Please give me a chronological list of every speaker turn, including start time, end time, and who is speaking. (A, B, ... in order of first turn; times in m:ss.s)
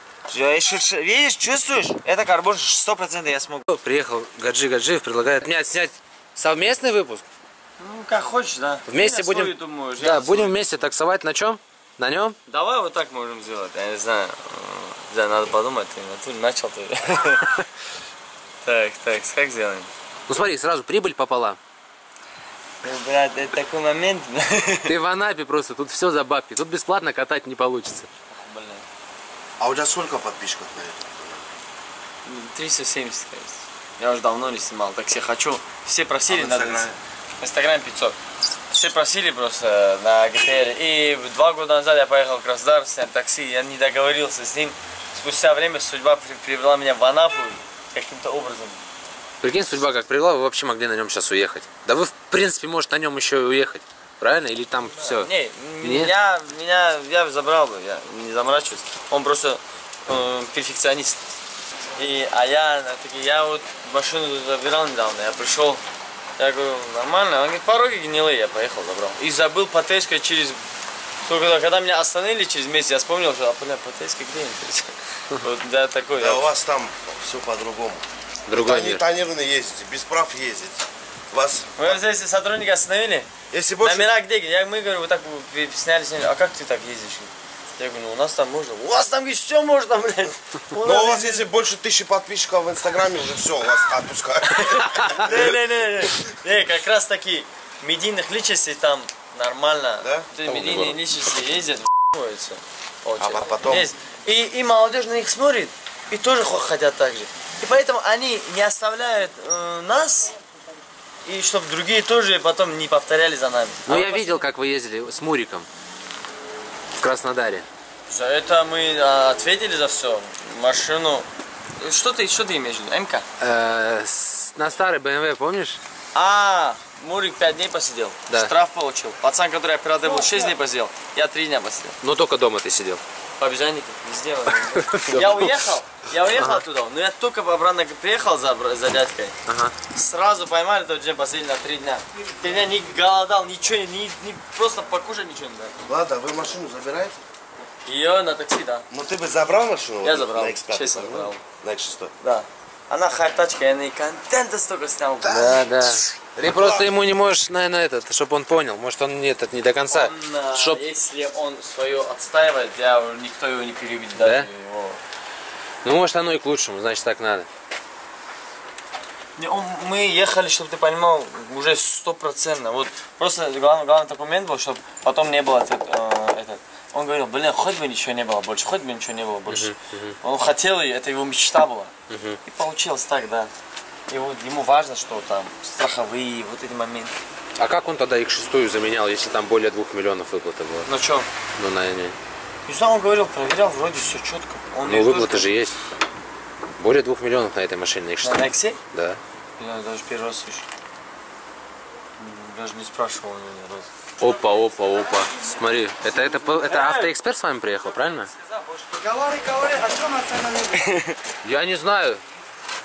0:00.3-0:03.6 A
0:03.7-0:07.2 B
0:07.8-0:10.8 C
0:08.9-0:12.4 B
0:12.5-0:17.5 C
0:18.6-0:19.9 C
0:20.3-0:21.6 B
0:22.8-0:24.9 C
0:24.9-0:28.1 B
0:28.3-0:28.8 C
0:29.6-0:31.4 D
0:32.3-0:36.9 C
0:36.3-0:37.0 D
0:37.4-0:38.2 C
0:38.7-0:48.8 C
0:49.4-0:56.1 B
0:55.0-1:01.2 C
1:02.0-1:05.8 C
1:06.4-1:10.6 C
1:11.2-1:16.5 C
1:16.2-1:22.0 D
1:18.5-1:19.1 B
1:21.8-1:23.3 C
1:23.5-1:24.1 D
1:23.8-1:31.5 C
1:30.7-1:35.6 D
1:34.6-1:50.4 C
1:40.0-1:40.3 D
1:40.5-1:41.0 B
1:43.2-1:43.9 D
1:51.2-1:54.5 C
1:53.9-1:55.7 B
1:57.0-1:57.7 B
1:58.1-2:01.3 C
2:01.8-2:03.2 C
2:03.4-2:05.8 B
2:06.2-2:12.0 C
2:10.1-2:10.5 E
2:12.0-2:13.0 B
2:13.4-2:19.4 C
2:14.7-2:15.5 B
2:16.4-2:16.6 B
2:19.5-2:19.8 B
2:19.9-2:25.7 C
2:25.9-2:27.2 D
2:27.9-2:28.8 C
2:28.9-2:32.1 D
2:30.0-2:31.4 C
2:32.2-2:35.6 C
2:35.2-2:36.9 D
2:35.3-2:40.8 B
2:39.9-2:45.0 C
2:44.2-2:44.5 B
2:45.8-2:47.5 B
2:49.4-3:01.9 C
2:59.5-3:00.2 B
3:02.1-3:02.4 B
3:02.4-3:03.5 C
3:04.1-3:07.1 C
3:07.6-3:10.9 B
3:10.9-3:11.3 C
3:11.6-3:12.2 B
3:12.7-3:15.5 C
3:14.8-3:15.8 B
3:16.8-3:19.2 B
3:18.2-3:18.8 C
3:19.6-3:20.7 C
3:22.2-3:23.9 C
3:24.2-3:28.3 B
3:26.3-3:27.1 C
3:28.9-3:30.9 E
3:30.8-3:31.1 C
3:31.4-3:32.2 B